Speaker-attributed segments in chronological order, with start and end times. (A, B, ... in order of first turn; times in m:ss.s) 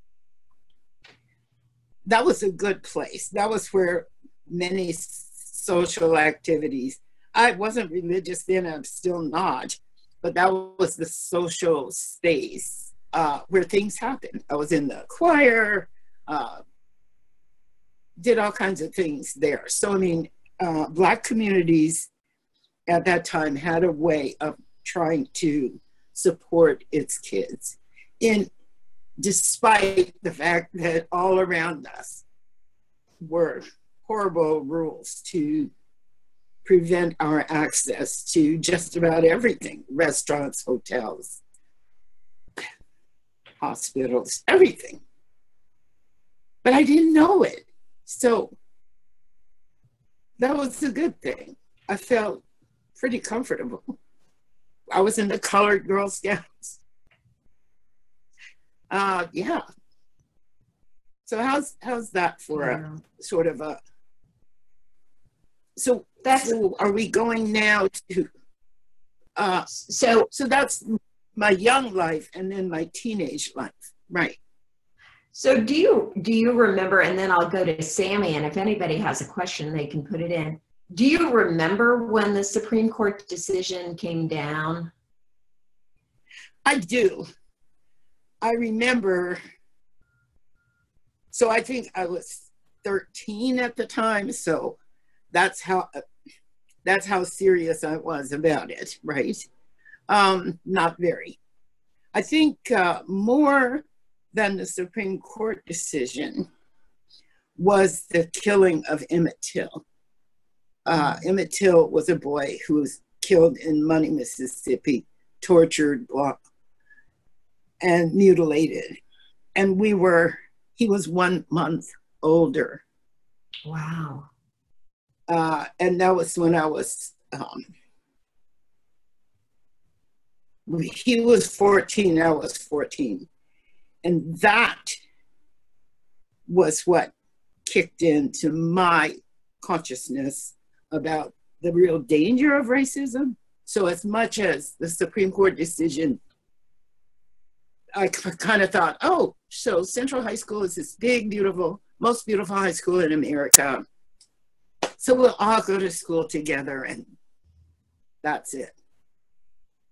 0:02.1-0:16.6 A
0:18.2-0:22.1 A
0:22.9-0:28.5 A
0:29.2-0:32.2 A
0:33.2-0:35.7 A
0:36.6-0:41.4 A
0:43.6-0:45.0 A
0:46.6-0:48.6 A
0:50.4-0:52.4 A
0:53.0-0:53.9 A
0:54.9-0:56.8 A
0:58.9-0:59.6 A
1:01.3-1:03.8 A
1:02.6-1:03.0 B
1:05.8-1:08.3 A
1:06.2-1:06.6 B
1:09.4-1:09.7 A
1:09.7-1:10.3 B
1:10.3-1:14.4 A
1:15.3-1:24.9 B
1:26.6-1:27.3 A
1:28.4-1:29.4 A
1:31.3-1:34.8 A
1:35.3-1:36.0 A
1:36.8-1:39.5 A
1:40.1-1:41.4 A
1:42.1-1:46.5 A
1:47.6-1:49.8 A
1:50.9-1:56.4 A
1:57.8-1:59.0 A
1:59.6-2:02.8 A
2:03.7-2:04.3 B
2:05.3-2:07.6 A
2:10.7-2:13.3 A
2:14.0-2:14.9 A
2:16.5-2:17.1 A
2:17.7-2:26.2 A
2:28.0-2:33.8 A
2:35.0-2:37.1 A
2:38.2-2:38.8 A